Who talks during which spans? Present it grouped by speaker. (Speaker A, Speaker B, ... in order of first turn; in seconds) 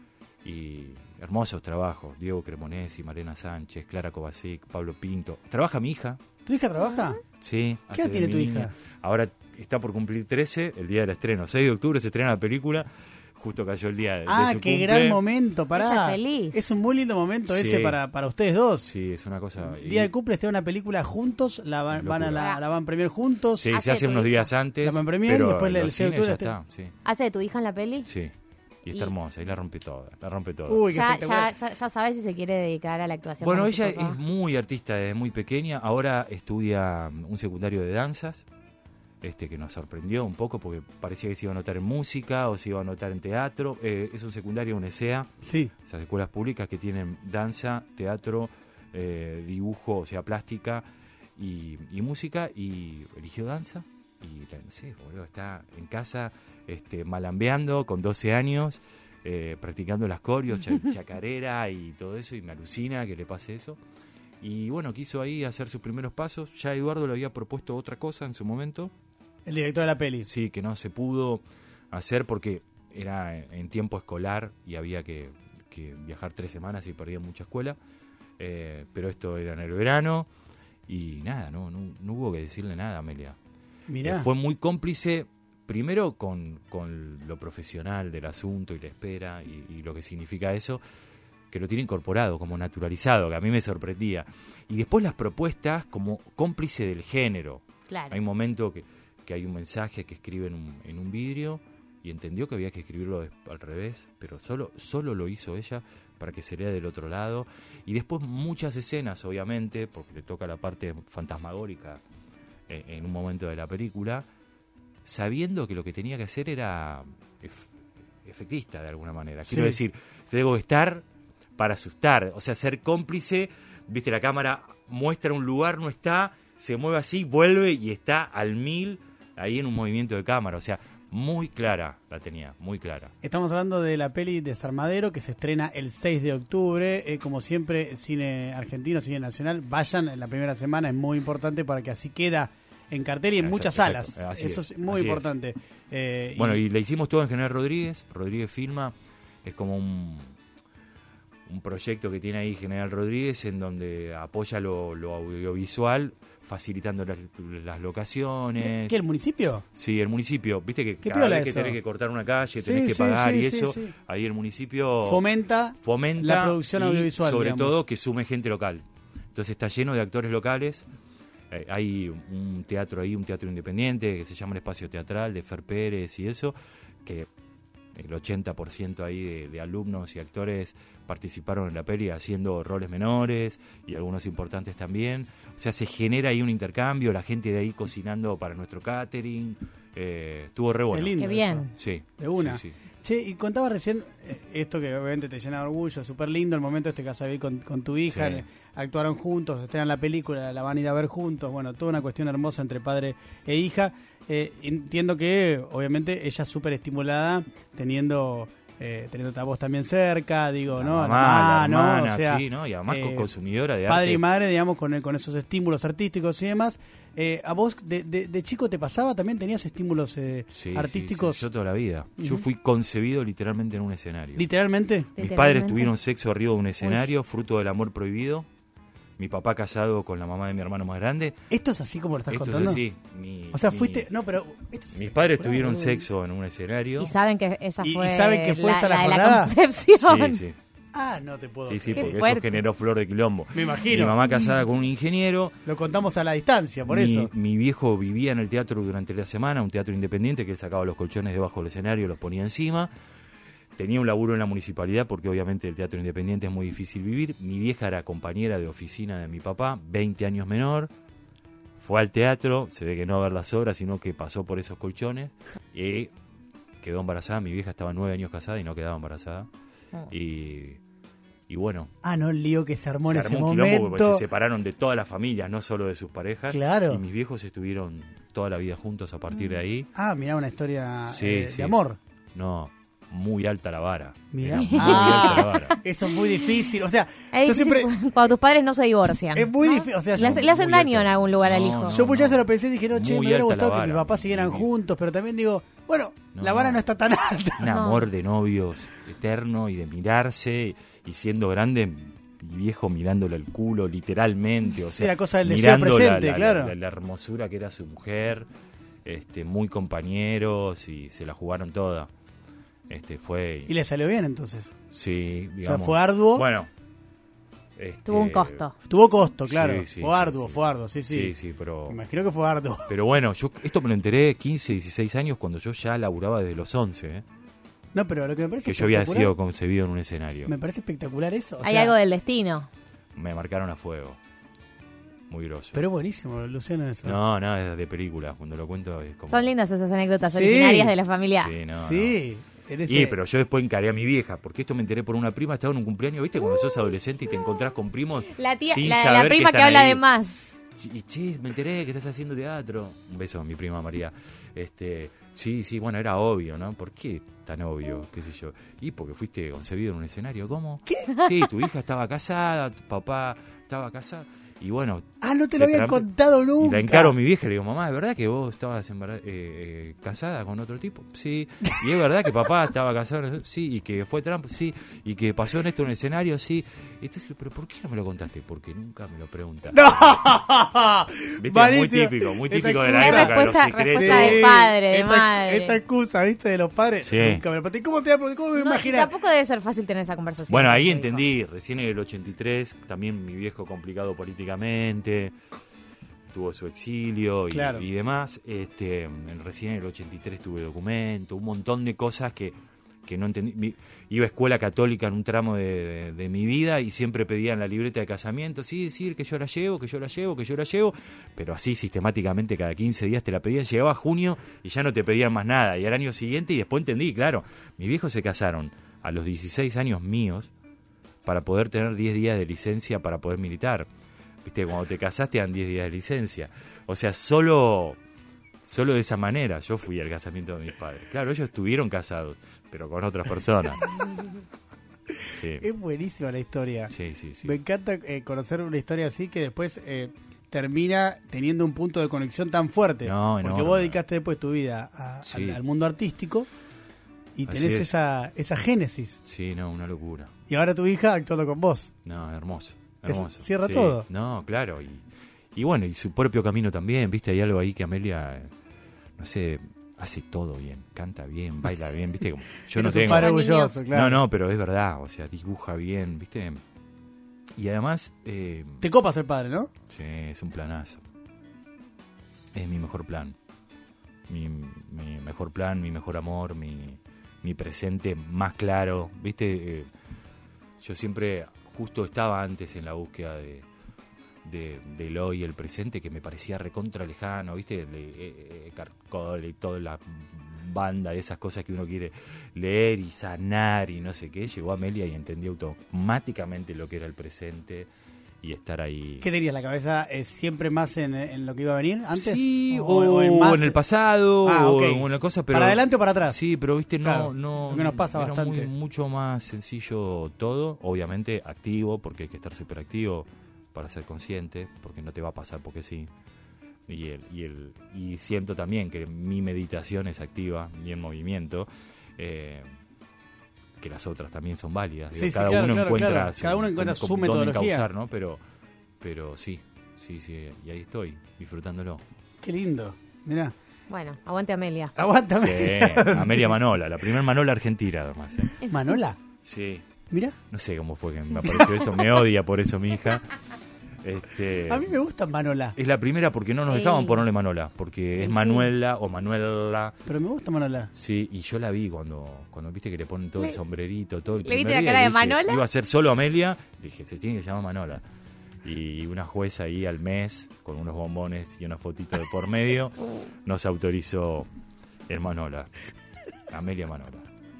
Speaker A: 0.4-6.2, 7.4-15.2, 17.5-18.0, 18.8-20.1, 21.9-22.4, 23.6-26.9, 28.0-28.3, 28.8-30.9, 33.4-38.5, 39.2-50.8, 51.4-63.8, 64.4-68.9, 70.2-77.8, 78.4-80.3, 80.9-83.4, 84.0-90.8, 91.5-112.0, 112.7-114.3, 115.0-117.7, 118.2-121.0, 121.6-133.1, 143.4-145.3, 146.3-150.3, 151.4-159.0, 159.7-165.2, 165.8-170.9, 171.5-177.3, 177.9-192.7, 198.1-198.4, 210.7-214.2, 220.5-224.5, 225.2-228.5, 229.2-231.4, 232.3-234.1, 234.9-237.1, 239.9-240.6, 241.7-245.6, 246.9-252.9, 253.8-260.9, 261.8-266.1, 266.8-269.5, 270.1-270.8, 271.5-271.9, 273.0-279.9, 281.1-281.8, 282.3-285.8, 290.1-294.7, 296.3-296.8, 297.6-308.5, 309.0-312.1, 312.9-313.7, 314.9-316.7, 317.8-318.6, 319.4-322.0, 322.9-327.2, 328.6-330.5, 333.1-334.2, 335.3-335.8, 337.0-339.5, 341.3-342.2, 342.9-350.0, 350.7-380.2, 381.4-384.5, 387.0-387.4, 390.5-395.3, 396.3-420.5, 421.2-423.9, 424.4-428.0, 428.6-433.9, 435.3-435.6, 436.9-437.5, 443.0-444.0, 445.2-445.6, 447.5-447.9, 449.2-450.3, 452.0-458.5, 459.2-466.6, 467.6-468.8, 469.9-471.0, 472.5-473.4, 474.3-479.9, 480.8-483.7, 484.4-497.9, 498.4-499.2, 502.1-516.1, 516.9-522.7, 523.8-528.4, 529.0-532.0, 535.4-538.5, 539.4-539.8, 540.5-543.3, 544.0-545.0, 545.8-550.0, 550.9-558.0, 558.6-564.5, 565.1-565.7, 566.5-567.2
Speaker B: 6.5-7.2, 7.9-8.7, 14.2-18.9, 19.6-23.7, 24.8-26.5, 30.7-31.5, 45.4-45.7, 69.5-70.3, 83.9-84.3, 119.4-119.8, 133.2-146.6, 158.6-159.6, 161.0-161.8, 162.6-163.9, 165.0-167.8, 190.9-213.3, 213.8-221.4, 224.3-225.1, 231.5-232.8, 233.5-236.1, 237.8-239.6, 240.9-242.2, 243.5-244.2, 245.7-247.3, 272.0-274.2, 276.5-277.0, 279.9-282.0, 284.3-287.9, 289.3-291.1, 291.9-297.7, 304.9-306.7, 313.7-314.7, 315.6-316.5, 318.8-321.3, 321.9-322.9, 327.9-329.3, 330.4-331.9, 335.7-337.2, 340.2-340.9, 341.7-343.2, 360.9-361.3, 365.2-367.1, 379.7-383.4, 383.9-389.1, 397.5-397.8, 435.6-446.5, 447.4-449.2, 450.5-451.9, 453.1-454.1, 462.7-464.2, 468.8-469.7, 499.2-503.8, 504.4-506.4, 507.0-508.7, 525.1-527.9, 532.4-533.5, 535.0-536.5, 538.6-539.2, 540.1-540.4, 544.6-545.8, 550.0-550.9
Speaker C: 15.7-16.6, 23.7-24.5, 27.0-28.1, 30.9-34.2, 97.9-98.2, 191.2-191.7, 225.2-225.9, 237.0-240.4, 241.9-242.6, 284.5-285.8, 287.3-292.0, 297.7-298.1, 318.1-318.7, 331.6-332.7, 339.3-341.5, 348.3-350.6, 382.9-385.8, 388.6-391.2, 463.0-463.8, 533.9-534.9, 546.7-547.2, 548.3-548.6, 554.4-555.6